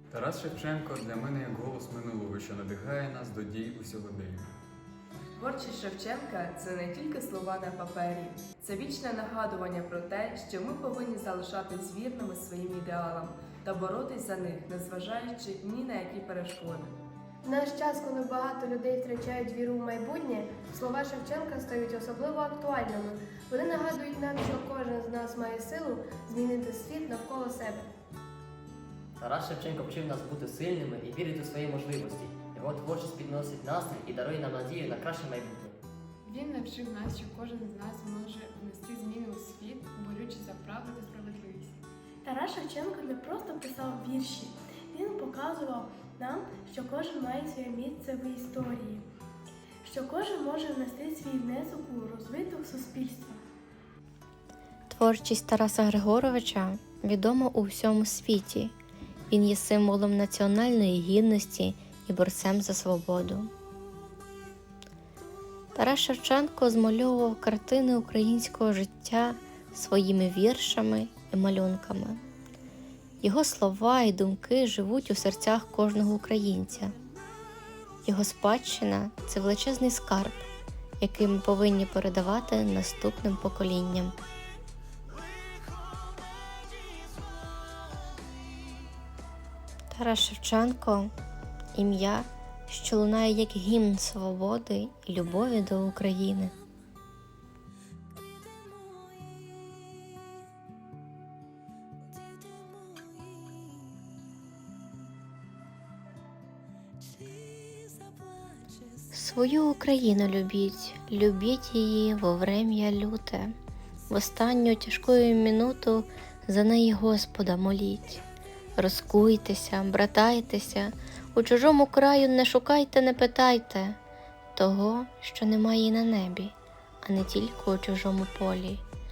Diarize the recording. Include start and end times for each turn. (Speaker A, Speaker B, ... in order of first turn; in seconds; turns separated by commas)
Speaker A: 0.1-4.5, Speaker B: 5.4-16.9, Speaker C: 17.4-27.9, Speaker D: 29.2-35.8, Speaker E: 36.2-41.8, Speaker F: 42.2-49.0, Speaker F: 49.8-53.4, Speaker G: 54.9-58.7, Speaker G: 59.3-63.5, Speaker G: 65.7-72.2, Speaker G: 73.2-76.9, Speaker G: 78.0-80.5, Speaker G: 81.0-84.1, Speaker G: 89.9-91.1, Speaker G: 91.7-96.5, Speaker G: 109.1-113.5, Speaker G: 114.1-118.2, Speaker G: 118.8-124.0, Speaker G: 124.5-128.8